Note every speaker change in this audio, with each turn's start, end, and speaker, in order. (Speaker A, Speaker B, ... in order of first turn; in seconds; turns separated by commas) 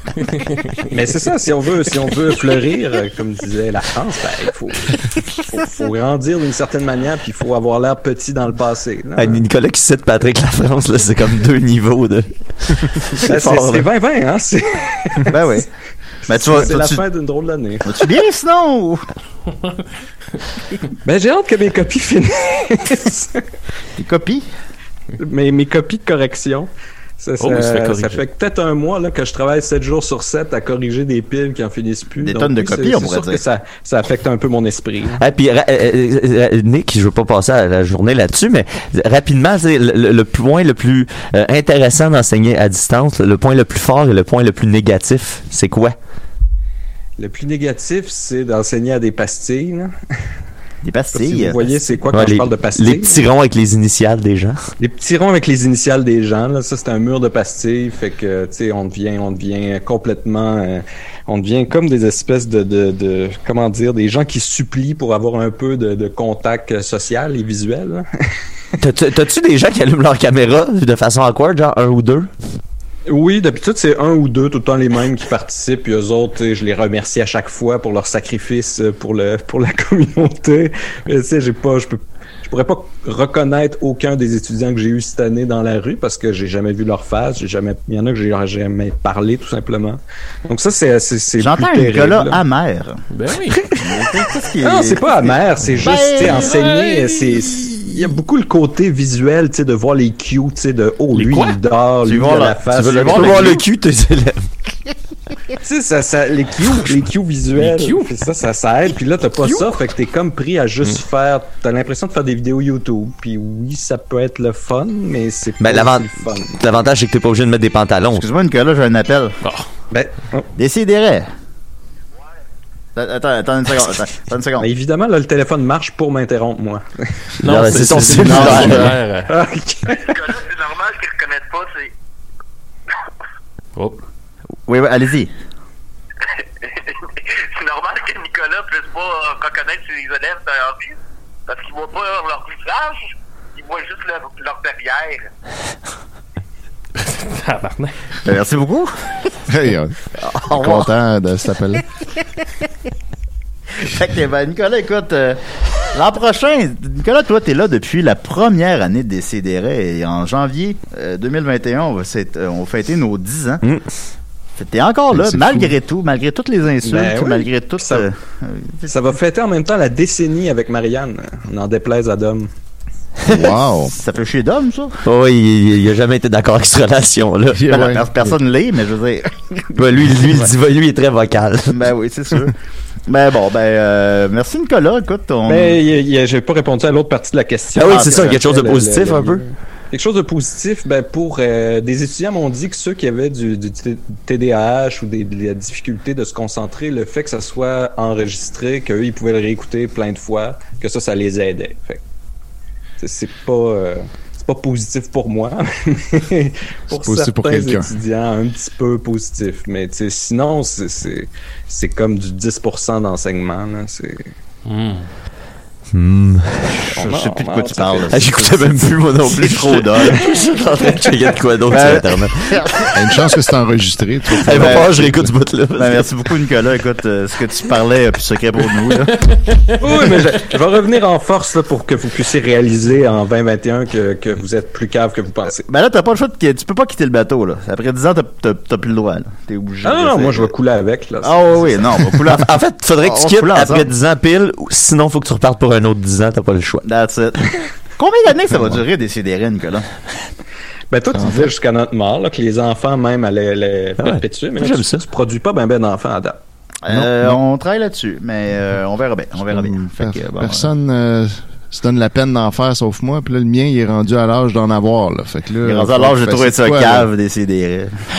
Speaker A: 0.2-0.9, Speaker B: 0.9-9.4, Speaker C: 9.2-13.9, Speaker B: 13.2-15.4, Speaker D: 15.3-15.7, Speaker D: 16.3-17.0, Speaker B: 16.3-17.9, Speaker D: 17.9-19.1, Speaker B: 21.1-23.4, Speaker D: 24.0-24.5, Speaker B: 25.2-35.2, Speaker A: 27.4-28.2, Speaker D: 32.2-33.4, Speaker C: 35.2-46.0, Speaker B: 47.2-49.9, Speaker D: 50.8-52.0, Speaker B: 51.1-53.3, Speaker C: 52.1-54.6, Speaker B: 54.8-68.0, Speaker C: 68.8-72.3, Speaker B: 73.1-92.4, Speaker D: 91.4-93.0, Speaker A: 93.1-93.7, Speaker D: 93.8-96.7, Speaker B: 94.6-103.5, Speaker A: 96.2-97.2, Speaker D: 97.6-98.1, Speaker A: 101.1-101.6, Speaker D: 102.0-103.6, Speaker C: 102.7-104.5, Speaker B: 105.6-116.6, Speaker A: 107.6-108.1, Speaker C: 115.6-118.3, Speaker D: 118.1-119.3, Speaker A: 119.4-119.7, Speaker B: 119.9-120.5, Speaker D: 120.6-121.3, Speaker D: 123.0-124.7, Speaker B: 124.6-126.8, Speaker A: 127.4-129.3, Speaker C: 127.4-128.9, Speaker D: 128.2-129.0, Speaker B: 129.3-130.2, Speaker E: 130.0-131.9, Speaker D: 134.7-135.3, Speaker E: 136.6-141.0, Speaker E: 141.5-145.3, Speaker A: 147.0-147.9, Speaker D: 148.2-148.9, Speaker F: 149.5-151.8, Speaker D: 150.2-150.9, Speaker D: 153.8-155.4, Speaker D: 155.9-163.6, Speaker D: 164.6-168.9, Speaker F: 165.1-165.8, Speaker B: 166.8-168.1, Speaker B: 168.9-172.5, Speaker F: 173.3-173.9, Speaker D: 173.3-174.9, Speaker C: 175.1-177.7, Speaker F: 177.5-178.3, Speaker D: 177.7-180.5, Speaker C: 179.8-181.9, Speaker D: 181.7-182.6, Speaker D: 183.1-185.8, Speaker B: 185.5-202.0, Speaker C: 187.8-189.4, Speaker D: 187.9-188.4, Speaker B: 203.0-214.3, Speaker F: 206.9-207.9, Speaker A: 214.7-215.1, Speaker C: 215.9-216.8, Speaker B: 216.9-218.2, Speaker D: 217.0-220.3, Speaker C: 218.1-222.6, Speaker D: 221.7-223.0, Speaker F: 222.9-225.3, Speaker C: 224.4-226.1, Speaker D: 224.5-229.3, Speaker A: 229.5-229.8, Speaker B: 229.8-235.6, Speaker D: 235.7-240.5, Speaker B: 239.8-242.0, Speaker D: 241.2-243.9, Speaker C: 242.2-246.8, Speaker D: 246.8-249.9, Speaker B: 250.9-256.4, Speaker C: 254.0-255.1, Speaker D: 256.8-260.7, Speaker F: 256.9-257.3, Speaker F: 259.4-267.1, Speaker D: 265.6-268.0